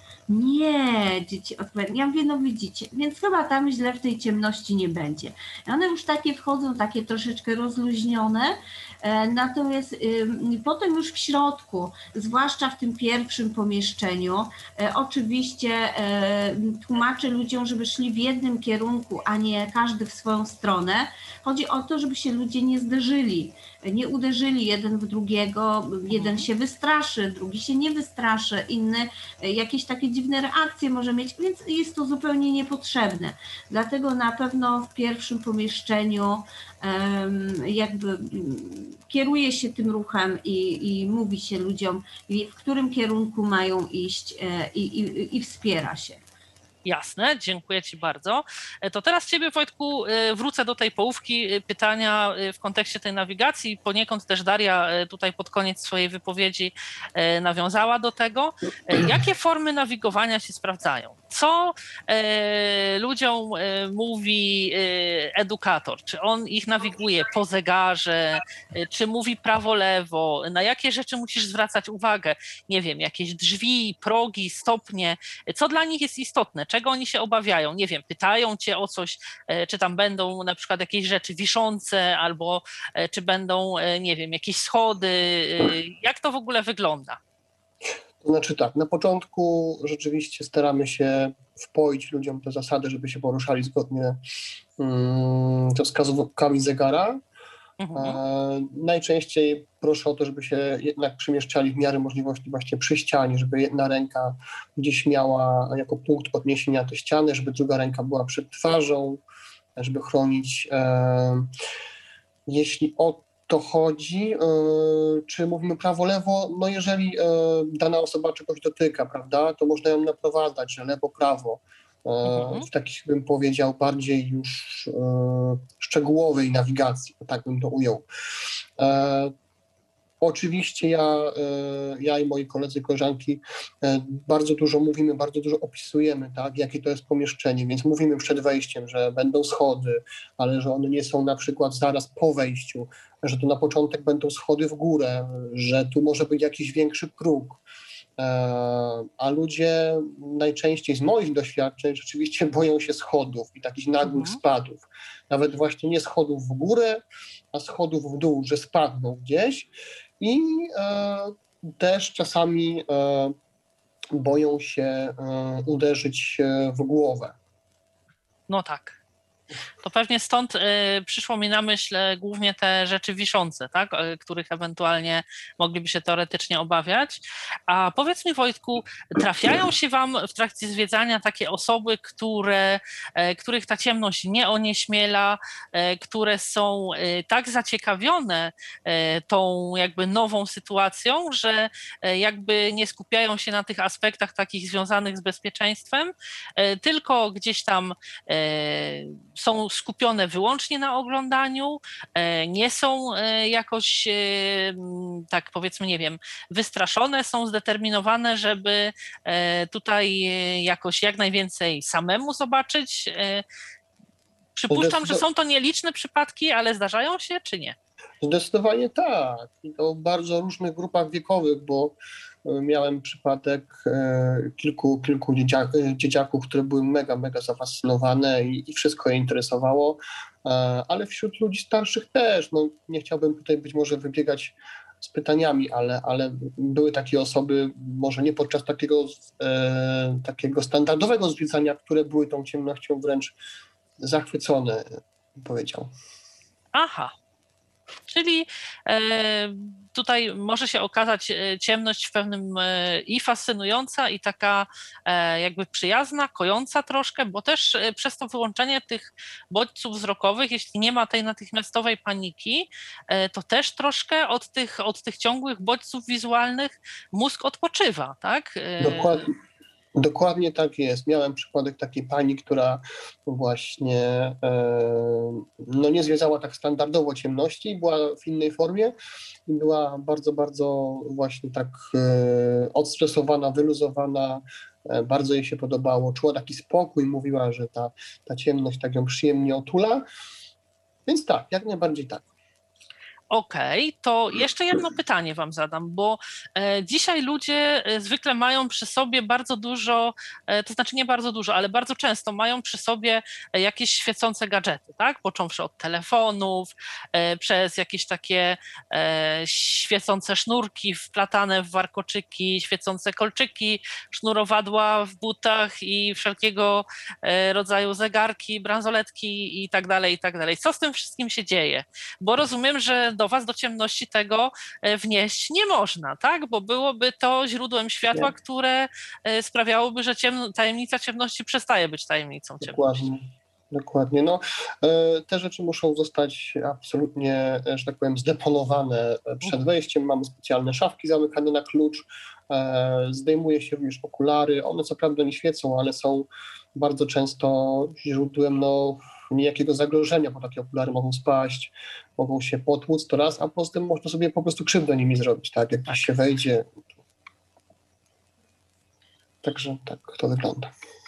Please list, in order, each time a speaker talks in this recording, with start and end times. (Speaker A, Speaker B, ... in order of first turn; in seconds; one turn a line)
Speaker A: 0.3-46.2
Speaker B: 26.1-26.4
Speaker B: 46.9-87.2
Speaker C: 88.2-94.2
Speaker C: 94.8-97.2
Speaker B: 97.8-98.2
Speaker C: 98.0-109.2
Speaker C: 109.8-111.5
Speaker C: 112.5-128.0
Speaker B: 122.2-122.7
Speaker C: 128.8-129.3
Speaker C: 130.2-147.6
Speaker C: 148.2-157.0
Speaker B: 154.0-154.4
Speaker C: 157.5-163.3
Speaker C: 164.1-167.3
Speaker B: 168.5-169.0
Speaker B: 169.8-213.4
Speaker B: 214.6-217.8
Speaker C: 214.7-215.2
Speaker C: 218.2-243.3
Speaker C: 244.0-245.9
Speaker B: 246.7-247.1
Speaker B: 248.1-269.2
Speaker C: 268.8-269.3
Speaker C: 269.9-278.9
Speaker C: 279.5-290.0
Speaker C: 291.1-292.2
Speaker B: 293.3-333.0
Speaker C: 332.6-356.7
Speaker C: 359.4-360.7